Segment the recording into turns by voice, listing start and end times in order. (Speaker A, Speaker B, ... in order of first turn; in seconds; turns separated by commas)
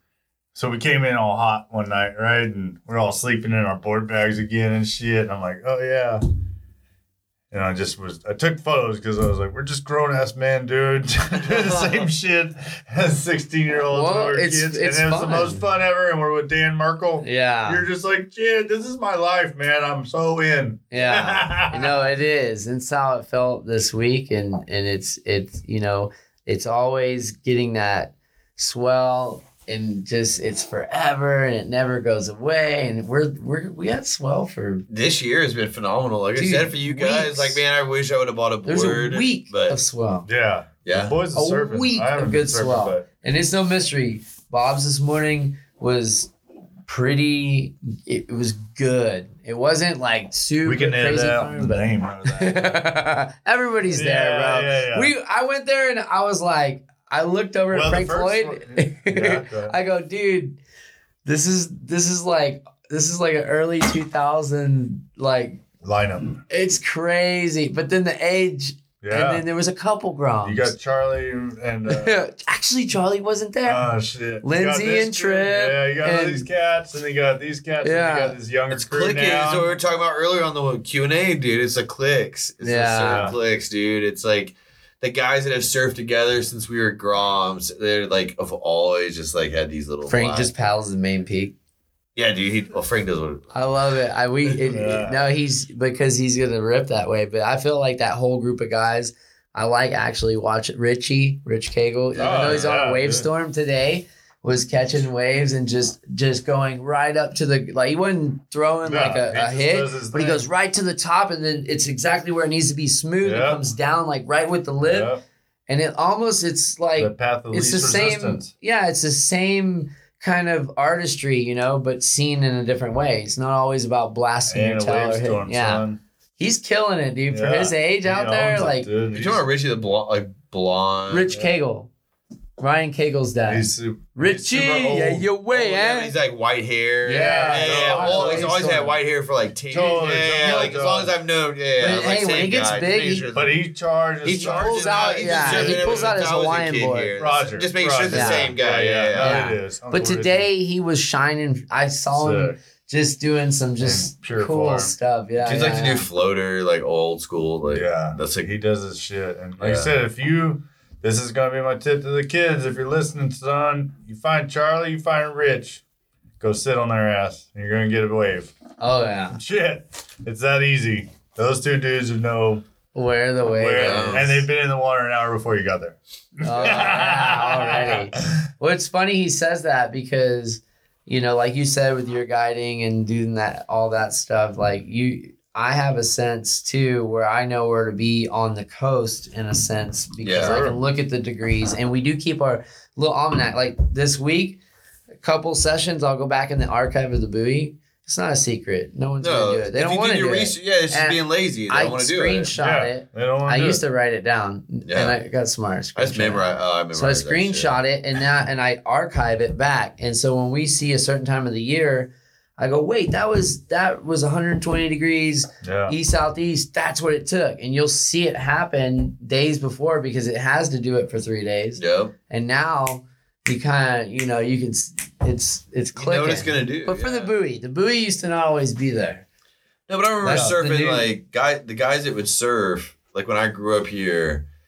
Speaker A: 0.6-6.2, Speaker A: 7.5-22.0, Speaker B: 11.6-11.9, Speaker C: 13.9-15.6, Speaker C: 17.2-17.9, Speaker C: 20.9-34.9, Speaker B: 34.9-39.8, Speaker C: 36.4-37.6, Speaker C: 38.7-40.3, Speaker A: 40.3-43.1, Speaker B: 40.9-41.2, Speaker C: 41.3-46.3, Speaker C: 46.9-60.6, Speaker A: 50.6-52.9, Speaker A: 53.9-55.1, Speaker A: 57.7-59.8, Speaker C: 61.2-65.6, Speaker A: 65.8-66.4, Speaker C: 66.5-70.7, Speaker A: 69.0-69.4, Speaker A: 70.4-72.2, Speaker C: 71.9-73.9, Speaker A: 73.7-79.7, Speaker C: 74.4-76.5, Speaker C: 77.8-78.4, Speaker B: 78.7-90.5, Speaker C: 82.6-83.3, Speaker A: 83.0-83.3, Speaker C: 90.1-91.5, Speaker B: 92.2-93.5, Speaker C: 93.5-115.1, Speaker A: 94.6-95.3, Speaker A: 102.2-103.3, Speaker A: 108.8-110.5, Speaker A: 113.2-113.7, Speaker A: 114.8-115.2, Speaker C: 115.7-125.8, Speaker A: 117.0-118.5, Speaker A: 124.5-126.0, Speaker C: 126.4-128.9, Speaker A: 127.3-129.4, Speaker B: 129.1-131.3, Speaker C: 131.1-131.9, Speaker C: 132.6-136.2, Speaker A: 133.5-135.3, Speaker B: 135.5-143.6, Speaker C: 137.1-139.0, Speaker A: 137.1-138.9, Speaker A: 139.7-141.1, Speaker C: 141.8-143.3, Speaker A: 143.3-146.2, Speaker B: 144.2-149.5, Speaker C: 144.2-147.1, Speaker A: 147.2-150.5, Speaker C: 148.1-148.5, Speaker C: 149.2-156.1, Speaker A: 152.1-152.6, Speaker A: 153.8-154.9, Speaker B: 155.4-158.5, Speaker A: 157.7-165.8, Speaker B: 159.6-159.9, Speaker A: 166.4-168.5, Speaker C: 168.8-169.4, Speaker A: 169.3-172.6, Speaker C: 172.9-174.3, Speaker A: 173.6-178.3, Speaker B: 173.8-174.4, Speaker C: 176.4-194.6, Speaker B: 190.2-190.6, Speaker A: 190.4-190.8, Speaker C: 195.2-229.2, Speaker B: 199.2-202.5, Speaker A: 202.6-203.8, Speaker B: 204.9-205.2, Speaker B: 206.0-207.8, Speaker A: 215.6-215.9, Speaker B: 221.8-222.1, Speaker B: 226.0-227.3, Speaker B: 229.9-234.4, Speaker C: 230.2-231.1, Speaker A: 230.2-230.6